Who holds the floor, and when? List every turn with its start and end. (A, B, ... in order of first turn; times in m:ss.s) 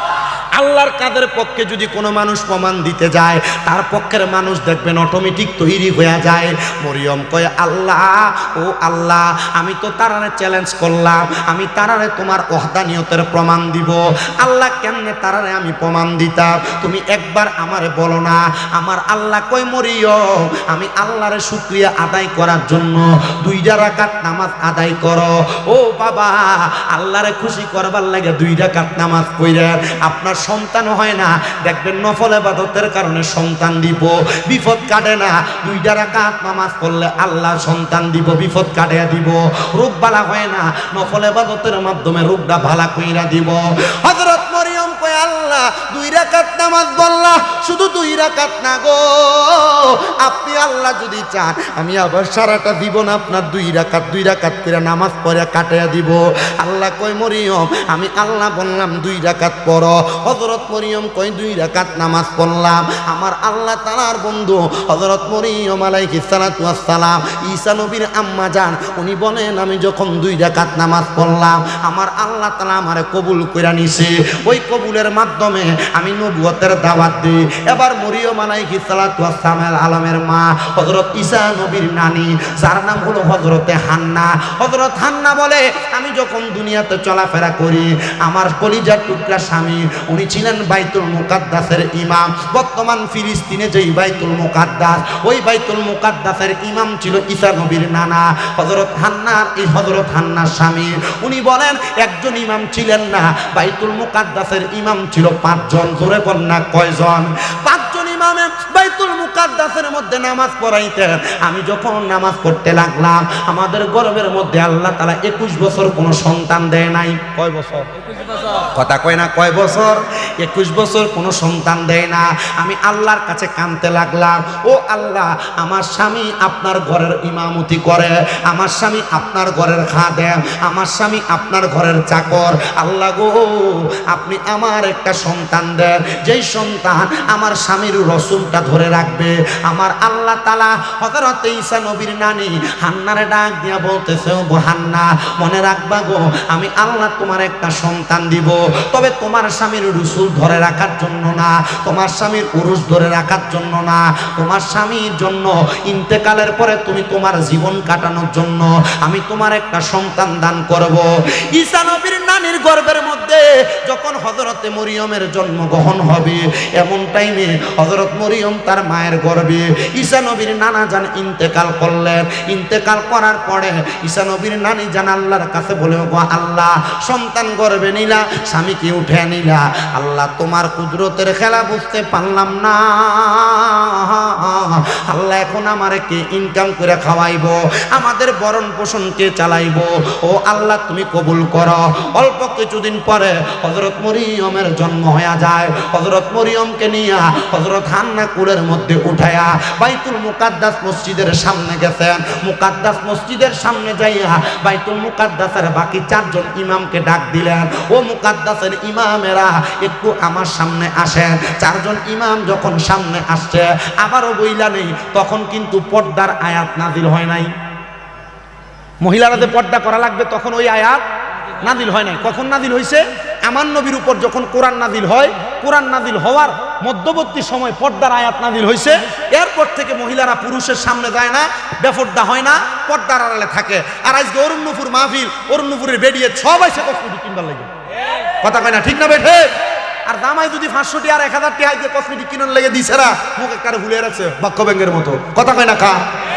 0:00.6-1:57.9 A
1:58.7-3:37.5 A
3:39.0-3:41.0 A
3:41.6-3:57.7 A
3:58.4-3:59.5 A
4:00.1-4:06.0 A